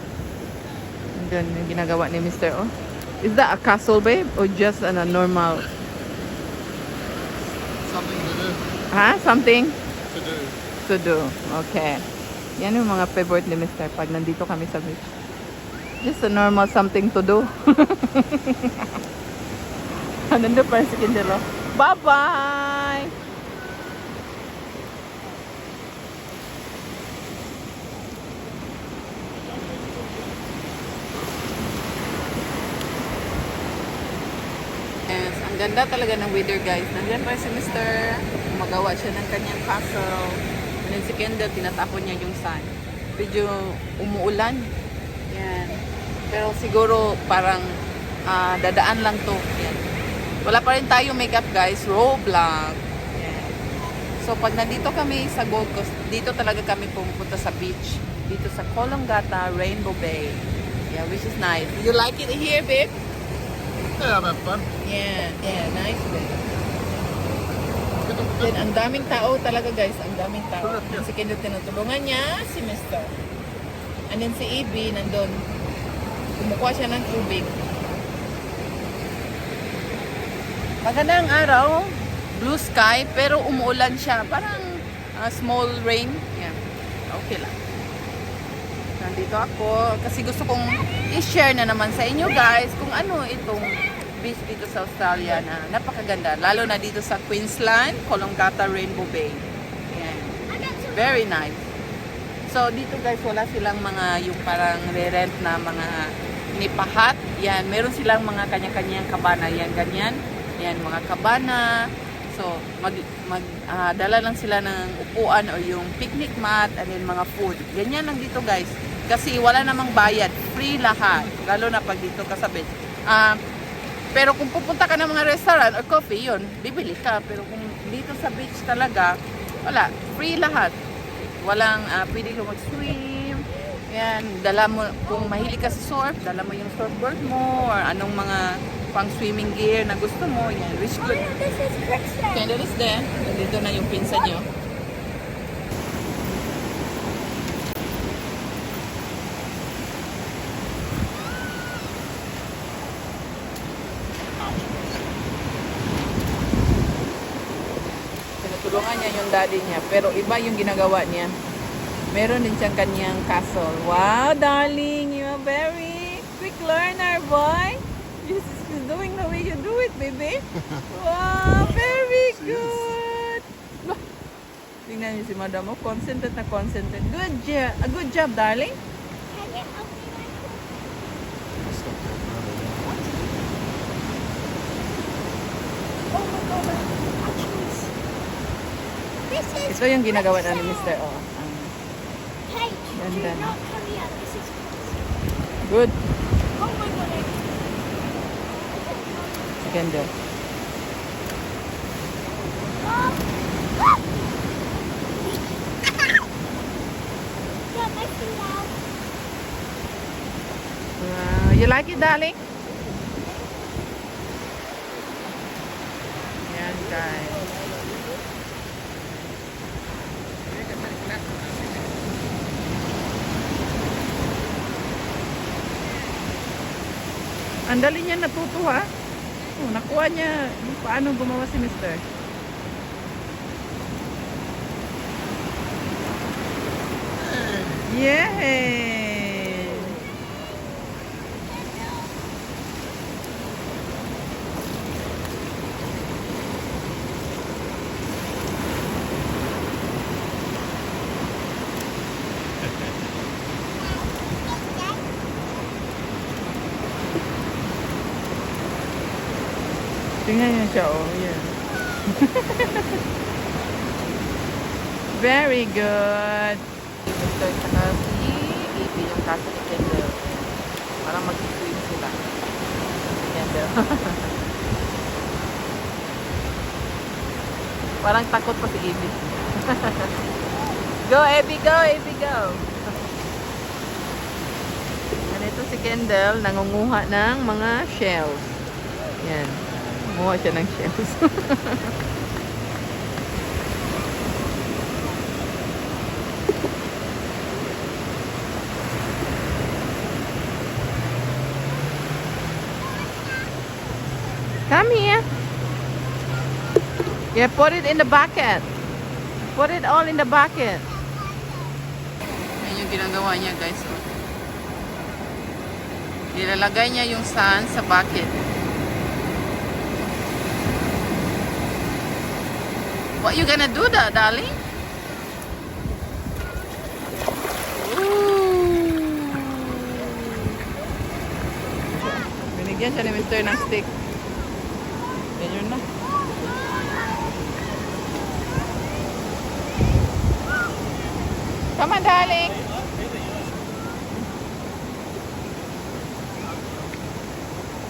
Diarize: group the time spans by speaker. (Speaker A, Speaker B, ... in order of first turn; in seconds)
Speaker A: 1.1-5.7, 8.9-9.8, 10.8-12.0, 12.6-15.1, 16.0-18.8, 20.3-23.1, 35.1-44.7, 45.3-49.9, 50.4-53.6, 54.2-63.0, 64.8-66.5, 68.4-73.1, 74.1-75.5, 76.4-77.6, 80.8-87.6, 89.0-101.6, 102.5-123.4, 124.1-130.8, 131.4-141.3, 142.3-144.5, 158.4-161.4, 162.1-174.0, 174.8-178.8, 189.7-191.8, 193.0-193.6, 195.6-196.0, 199.6-200.1, 211.0-212.4, 216.4-217.5, 227.7-228.9, 229.6-232.0, 237.8-240.0, 260.2-261.5, 262.1-263.0, 265.1-270.5, 271.0-272.2, 273.1-274.3, 278.0-280.1, 281.0-282.7, 285.3-288.6, 289.2-291.9, 304.7-305.2, 307.3-308.7, 309.5-310.9, 312.6-314.1, 316.3-318.4, 323.2-324.5, 327.7-330.7, 332.0-333.9, 335.4-335.8, 341.8-342.6
Speaker B: 7.8-8.6, 10.1-10.6, 63.9-64.7, 67.9-69.0, 70.6-71.0, 172.3-172.9, 181.7-182.7, 237.2-237.8
Speaker C: 100.5-101.2, 141.0-142.6, 179.3-180.8, 182.8-183.4, 186.1-187.9, 189.3-191.0, 192.5-195.0, 196.6-197.4, 198.8-200.1, 202.8-203.3, 207.7-208.8, 241.8-242.1